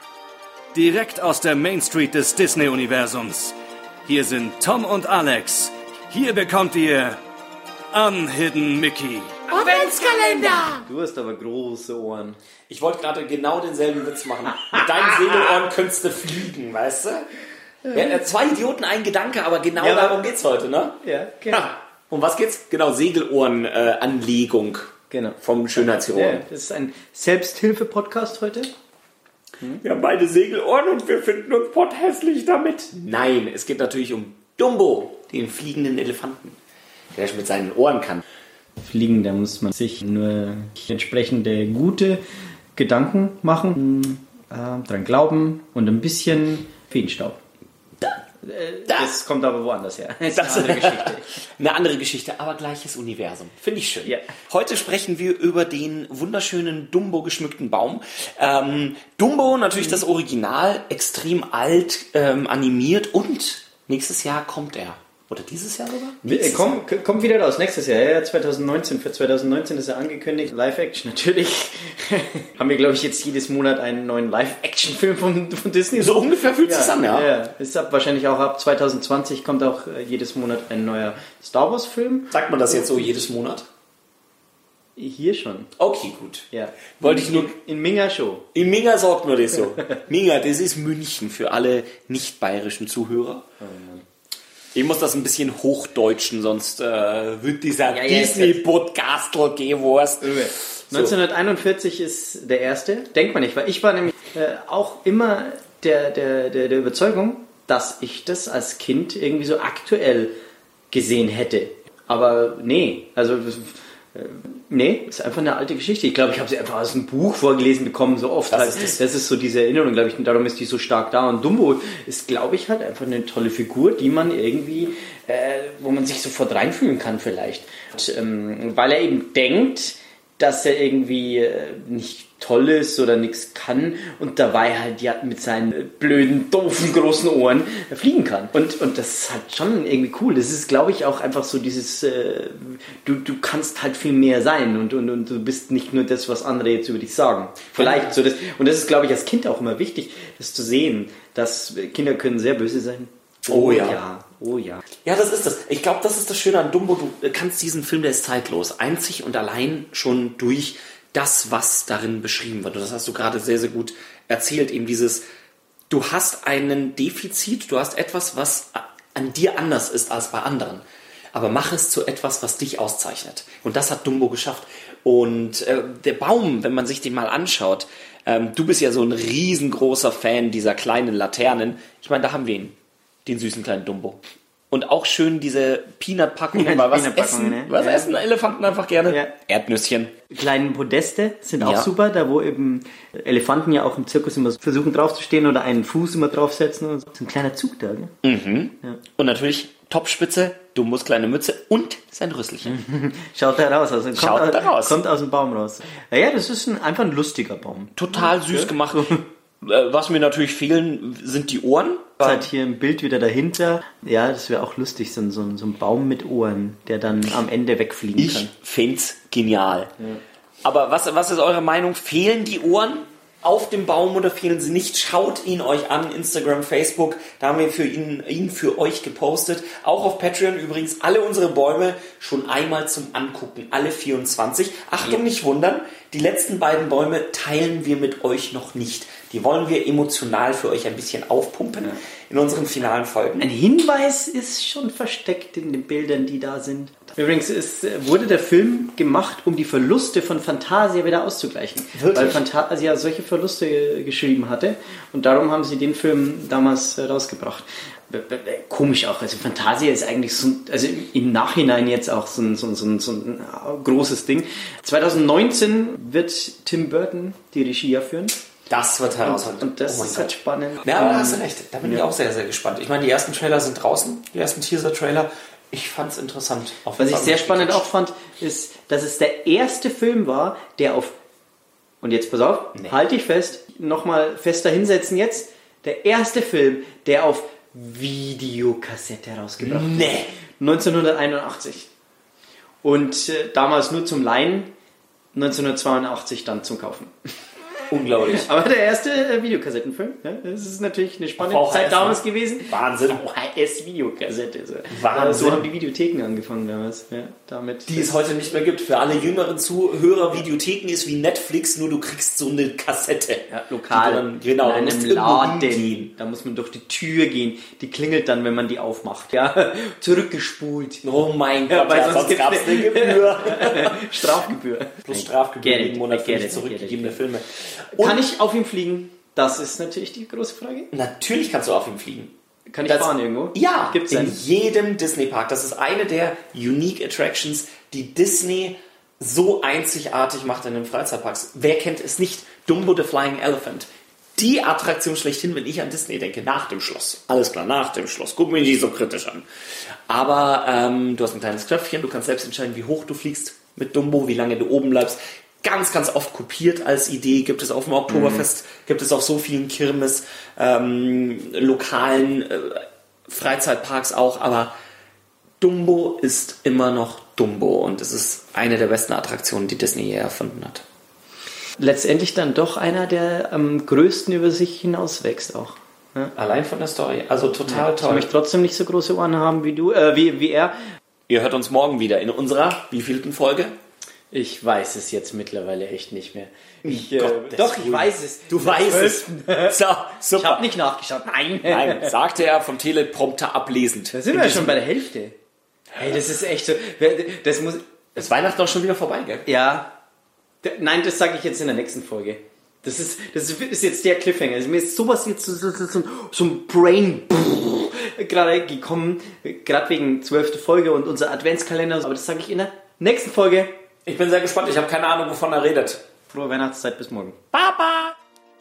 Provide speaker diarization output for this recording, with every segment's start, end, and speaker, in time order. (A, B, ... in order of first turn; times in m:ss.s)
0:00.7-0:07.2 A
0:07.9-0:09.5 A
0:09.5-0:10.8 B
0:10.6-0:12.4 C
0:12.7-0:17.3 B
0:17.9-0:21.0 B
0:19.8-0:20.3 C
0:21.0-0:21.7 C
0:21.5-0:26.4 B
0:25.1-0:28.7 C
0:29.8-0:36.6 B
0:37.2-0:38.2 B
0:38.8-0:42.2 C
0:42.8-0:47.4 C
0:48.4-0:51.4 C
0:50.3-1:06.8 B
1:06.2-1:23.1 C
1:16.0-1:17.3 B
1:22.3-1:23.7 B
1:25.0-1:25.7 C
1:25.8-1:26.5 B
1:26.5-1:28.5 C
1:27.0-1:27.5 B
1:28.5-1:33.4 B
1:33.6-1:34.1 C
1:34.7-1:41.2 B
1:37.9-1:38.6 C
1:40.2-1:50.4 C
1:50.9-2:34.9 C
1:58.5-1:59.0 B
2:27.8-2:28.1 B
2:33.5-2:34.0 B
2:35.0-2:45.2 B
2:45.9-3:04.2 B
3:04.7-3:10.1 B
3:06.5-3:08.2 C
3:09.1-3:09.3 C
3:10.3-3:18.1 C
3:11.6-3:11.9 B
3:18.2-3:22.8 B
3:22.7-3:29.2 C
3:24.2-3:25.0 B
3:28.0-3:32.4 B
3:32.2-3:38.5 C
3:38.2-3:39.9 B
3:40.6-4:03.5 B
4:03.4-4:28.4 C
4:11.9-4:12.4 B
4:28.7-4:37.9 B
4:29.2-4:32.0 C
4:37.0-4:41.2 C
4:42.0-4:51.9 C
4:49.6-4:50.3 B
4:52.8-4:54.7 C
4:55.3-4:57.1 C
4:57.9-4:58.5 B
4:58.2-5:08.2 C
5:01.4-5:03.2 B
5:04.9-5:05.7 B
5:07.9-5:16.1 B
5:13.5-5:21.0 C
5:21.0-5:24.4 B
5:21.7-5:27.2 C
5:25.0-5:28.3 B
5:28.0-5:30.9 C
5:30.9-5:32.3 B
5:32.7-5:34.4 C
5:32.9-5:49.5 B
5:50.1-6:04.7 B
5:58.1-5:58.4 C
6:05.6-6:10.8 B
6:11.8-6:16.3 C
6:16.4-6:18.3 B
6:17.7-6:20.8 C
6:21.3-6:23.8 B
6:24.3-6:29.8 C
6:26.8-6:30.7 B
6:30.4-6:32.1 C
6:31.6-6:34.9 B
6:34.1-6:35.4 C
6:36.0-6:37.9 C
6:38.2-6:39.5 B
6:39.5-6:39.9 C
6:40.6-6:53.7 C
6:54.1-6:56.0 B
6:56.3-6:57.4 C
6:57.5-6:58.2 B